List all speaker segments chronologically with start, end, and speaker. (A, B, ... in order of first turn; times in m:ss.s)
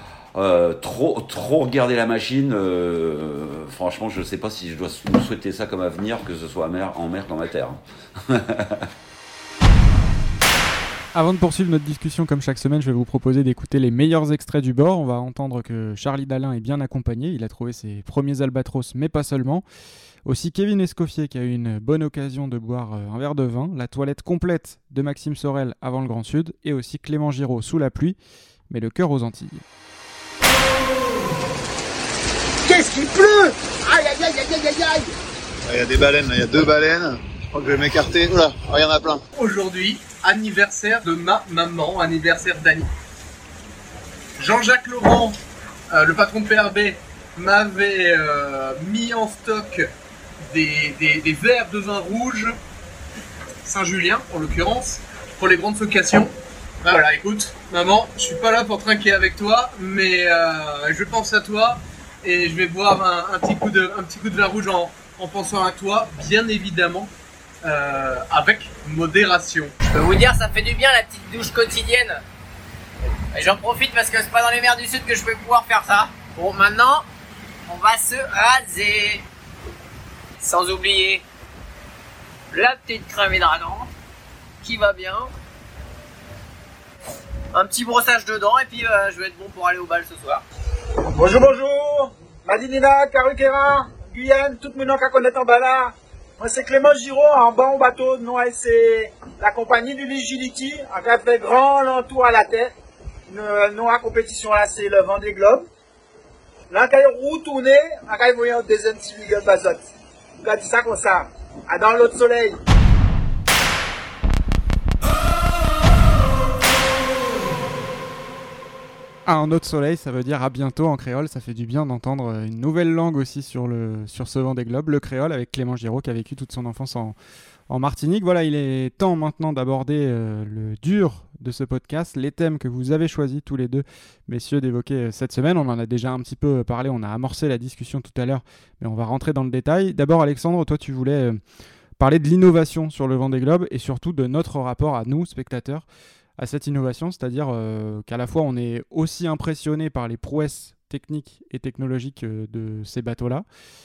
0:00.3-0:08.9 A
0:11.2-0:19.6 B
0:20.3-0:28.2 B
0:28.7-0:29.6 B
0:32.7-0:35.1 C
0:35.7-0:37.0 D
0:37.5-0:39.2 D
0:39.4-0:42.9 E
0:44.4-0:45.4 E
0:45.9-0:49.9 E
0:50.5-0:52.6 E
0:53.6-0:56.3 E
0:56.8-1:07.1 E
1:07.6-1:09.7 E
1:09.8-1:12.2 F
1:13.3-1:17.0 F
1:17.7-1:19.2 F
1:20.4-1:21.2 F
1:22.5-1:23.9 F
1:24.6-1:25.3 F
1:27.5-1:30.4 F
1:31.1-1:42.7 C
1:43.3-1:45.7 C
1:46.7-1:49.8 C
1:50.4-1:52.6 C
1:59.3-2:07.2 B
2:07.7-2:21.4 B
2:22.0-2:25.8 B
2:26.4-2:33.4 B